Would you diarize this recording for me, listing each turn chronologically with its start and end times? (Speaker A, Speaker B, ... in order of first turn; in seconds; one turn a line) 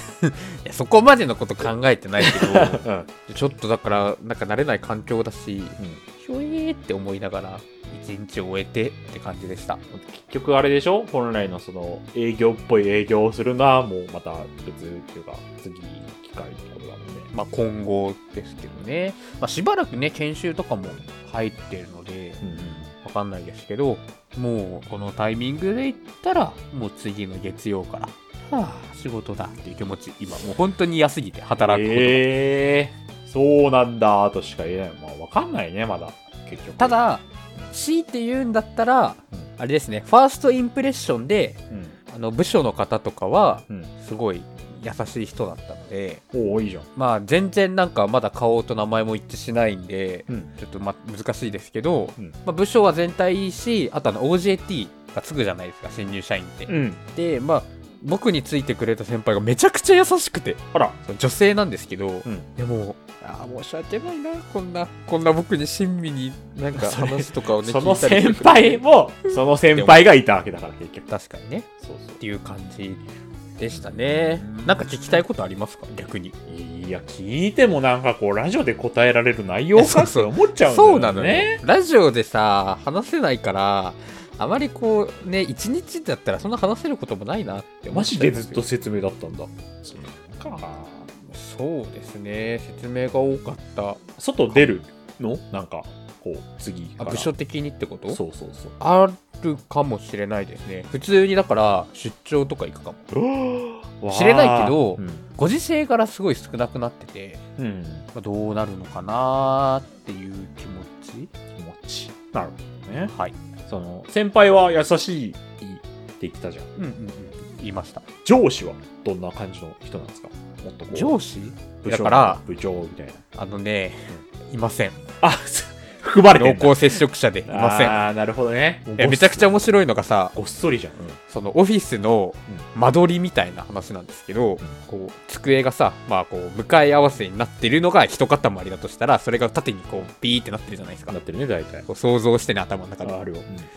Speaker A: 0.2-9.8
Speaker B: 2.2-3.1
Speaker B: 9.9-17.3
Speaker A: 17.3-22.4
Speaker B: 22.4-22.9
Speaker A: 23.0-32.3
Speaker B: 31.6-37.0
Speaker A: 36.8-46.2
Speaker B: 46.3-46.9
Speaker A: 47.0-68.8
Speaker B: 56.7-57.0
Speaker B: 66.8-71.1
Speaker A: 69.7-70.0
Speaker A: 71.1-71.7
Speaker B: 71.8-72.2
Speaker A: 72.2-73.0
Speaker A: 73.6-76.4
Speaker B: 73.8-75.1
Speaker B: 76.5-81.6
Speaker A: 79.8-88.6
Speaker B: 87.9-91.1
Speaker A: 91.2-94.0
Speaker B: 94.2-97.3
Speaker A: 97.0-98.2
Speaker B: 98.1-98.7
Speaker A: 98.8-103.0
Speaker B: 103.1-105.2
Speaker A: 104.1-107.4
Speaker B: 107.6-108.1
Speaker A: 108.1-111.3
Speaker B: 111.5-113.1
Speaker A: 113.1-113.3
Speaker B: 113.7-116.7
Speaker A: 116.8-118.0
Speaker B: 118.2-121.2
Speaker A: 120.9-122.4
Speaker B: 121.8-123.2
Speaker A: 123.3-125.0
Speaker B: 125.2-126.9
Speaker A: 126.3-128.0
Speaker B: 127.5-129.5
Speaker A: 128.9-130.4
Speaker B: 130.3-131.2
Speaker A: 131.3-141.2
Speaker B: 141.1-141.9
Speaker A: 141.9-143.2
Speaker B: 143.0-143.7